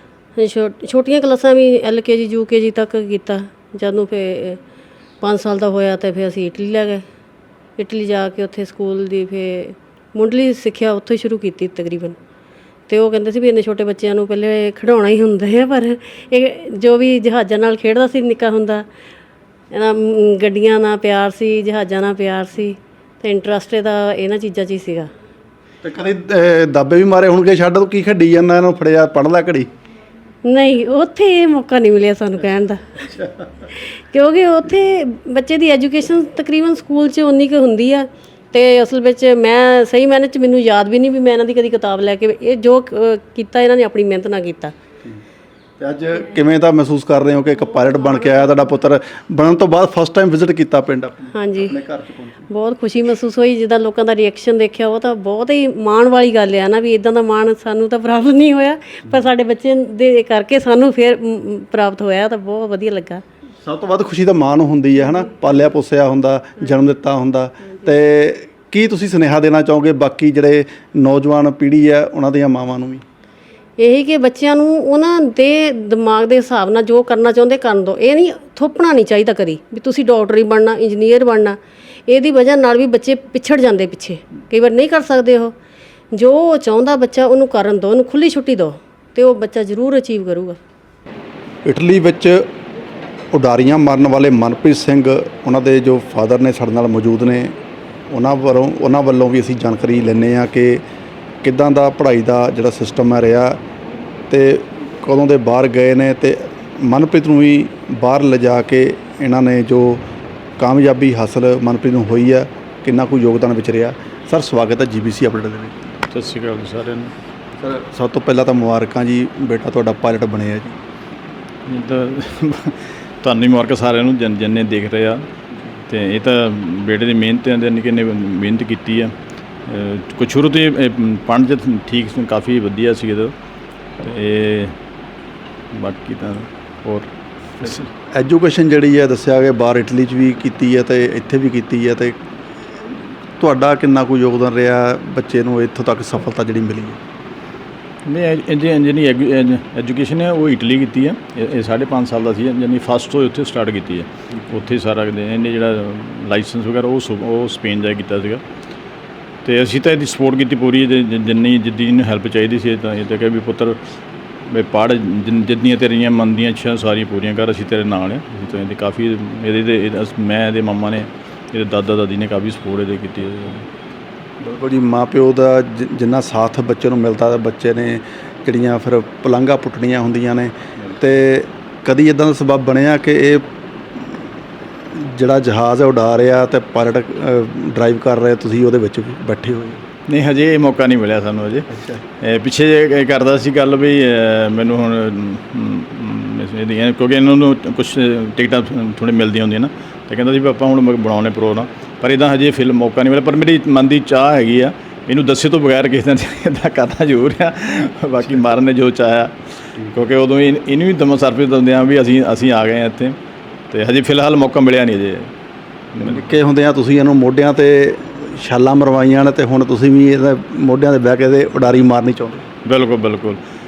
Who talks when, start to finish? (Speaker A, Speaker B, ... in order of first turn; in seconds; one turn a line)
Speaker A: 0.3-4.6
Speaker A: 5.2-7.0
Speaker A: 7.8-12.2
Speaker A: 12.9-18.9
Speaker A: 19.7-25.1
Speaker B: 25.8-29.7
Speaker A: 30.4-33.0
Speaker B: 33.0-33.6
Speaker A: 33.7-44.7
Speaker B: 45.8-52.5
Speaker A: 48.1-48.4
Speaker A: 51.3-51.7
Speaker A: 52.5-63.2
Speaker B: 63.6-73.0
Speaker A: 73.8-81.5
Speaker A: 82.1-85.5
Speaker A: 86.1-90.6
Speaker B: 91.6-92.4
Speaker B: 93.3-97.5
Speaker B: 98.1-100.8
Speaker B: 101.4-103.6
Speaker B: 104.3-110.0
Speaker B: 110.6-115.8
Speaker C: 116.1-117.1
Speaker B: 117.6-120.8
Speaker C: 121.7-125.2
Speaker C: 125.9-129.1
Speaker C: 129.7-133.3
Speaker C: 134.0-134.7
Speaker C: 135.7-137.1
Speaker B: 137.6-147.0
Speaker C: 148.1-158.4
Speaker C: 159.4-163.8
Speaker C: 164.5-173.7
Speaker B: 174.4-184.3
Speaker B: 184.9-189.8
Speaker C: 190.1-191.7
Speaker B: 191.7-192.0
Speaker C: 192.2-209.3
Speaker C: 209.9-213.2
Speaker C: 213.7-215.3
Speaker C: 215.9-216.3
Speaker B: 216.0-222.5
Speaker C: 222.6-223.4